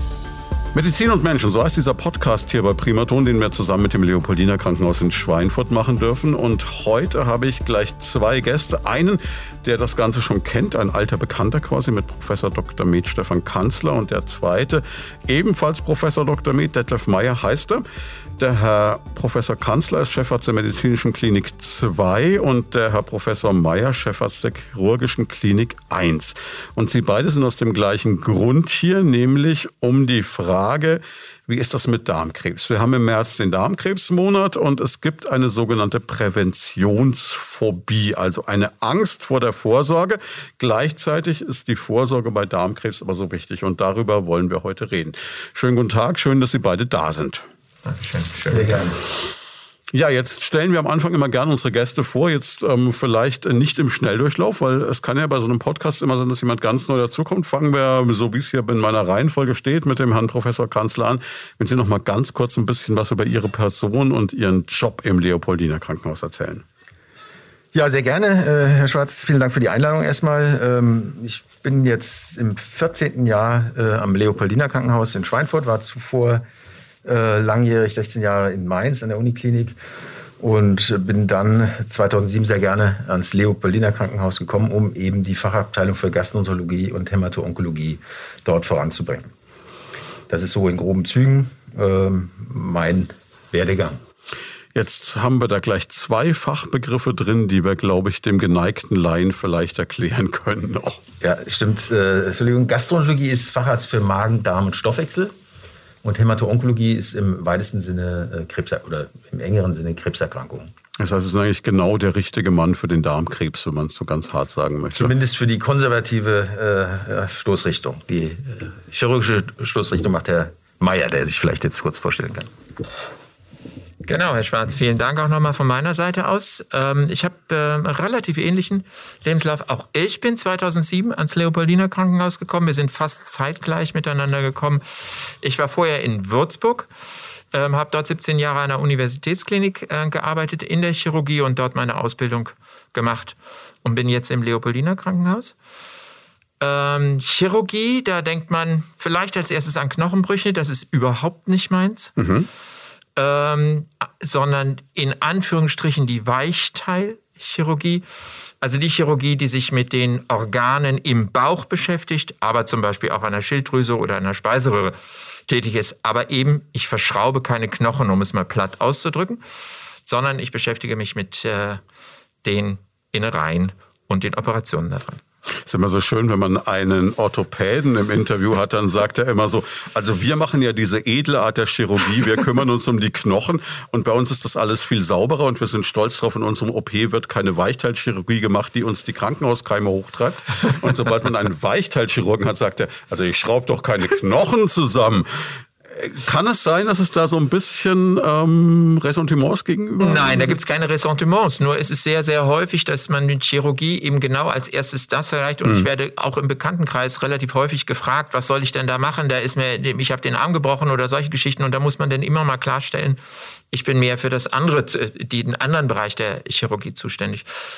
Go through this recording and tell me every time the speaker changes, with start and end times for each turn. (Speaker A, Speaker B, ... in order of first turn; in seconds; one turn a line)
Speaker A: 0.7-17.8
Speaker A: 18.4-47.5
Speaker B: 47.9-48.8
Speaker A: 49.9-66.6
Speaker C: 67.7-76.4
Speaker C: 77.0-79.8
Speaker C: 80.4-89.3
Speaker C: 90.3-94.0
Speaker A: 94.7-101.0
Speaker C: 101.2-105.3
Speaker C: 106.0-110.7
Speaker A: 111.0-115.1
Speaker C: 114.9-122.5
Speaker B: 124.0-136.9
Speaker B: 137.5-145.5
Speaker B: 146.6-152.1
Speaker A: 152.2-152.5
Speaker B: 153.2-158.0
Speaker B: 158.6-164.9
Speaker B: 165.5-169.4
Speaker B: 170.0-171.8
Speaker B: 172.4-175.2
Speaker A: 175.6-200.6
Speaker B: 200.0-213.2
Speaker B: 213.7-217.5